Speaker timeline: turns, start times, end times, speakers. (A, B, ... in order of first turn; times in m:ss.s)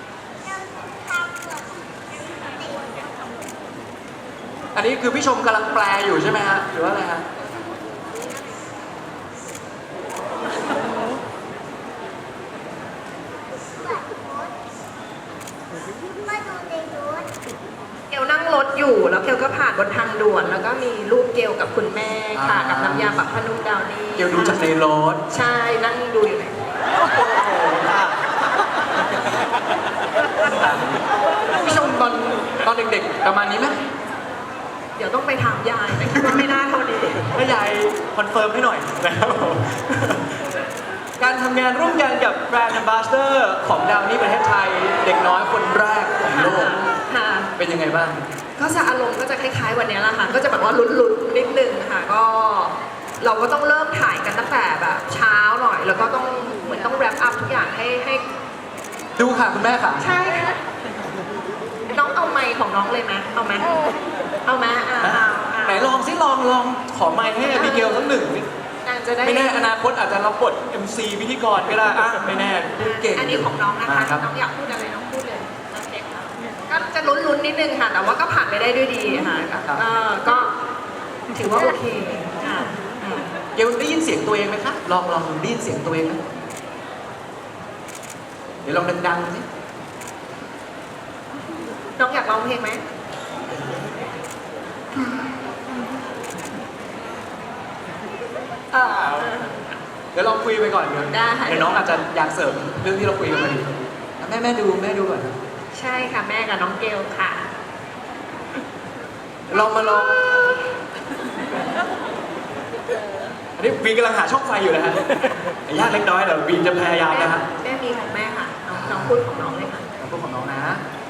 0:00.5-0:01.8 A
0:02.4-0:03.4 A
0:04.8-0:07.2 B
0:13.8-0:14.5 A
0:16.2-0:17.3 A
0:18.1-0:24.7 C
0:22.4-0:23.2 B
0:24.2-0:25.2 B
0:25.3-0:26.6 C
0:27.0-0:28.2 B
0:30.4-0:31.0 B
0:31.5-0:33.8 B
0:35.0-0:37.2 C
0:36.1-0:36.4 B
0:37.3-0:40.4 B
0:41.2-0:46.8 B
0:46.3-0:47.5 C
0:47.6-0:48.2 B
0:48.6-0:58.3 C
0:59.2-1:00.1 B
1:00.0-1:00.5 C
1:01.9-1:03.7 C
1:04.4-1:06.0 C
1:05.0-1:08.4 B
1:07.5-1:08.0 C
1:08.8-1:09.6 C
1:09.2-1:14.3 B
1:12.8-1:20.5 C
1:21.3-1:22.8 C
1:23.0-1:26.2 B
1:28.6-1:29.4 B
1:32.0-1:32.8 C
1:38.7-1:39.4 B
1:38.9-1:39.7 C
1:40.1-1:45.4 B
1:41.1-1:41.8 C
1:45.7-1:47.5 C
1:49.5-1:50.2 B
1:49.5-1:50.6 C
1:53.6-1:57.4 B
1:57.1-1:59.8 C
1:58.7-1:59.2 B
2:00.0-2:00.8 B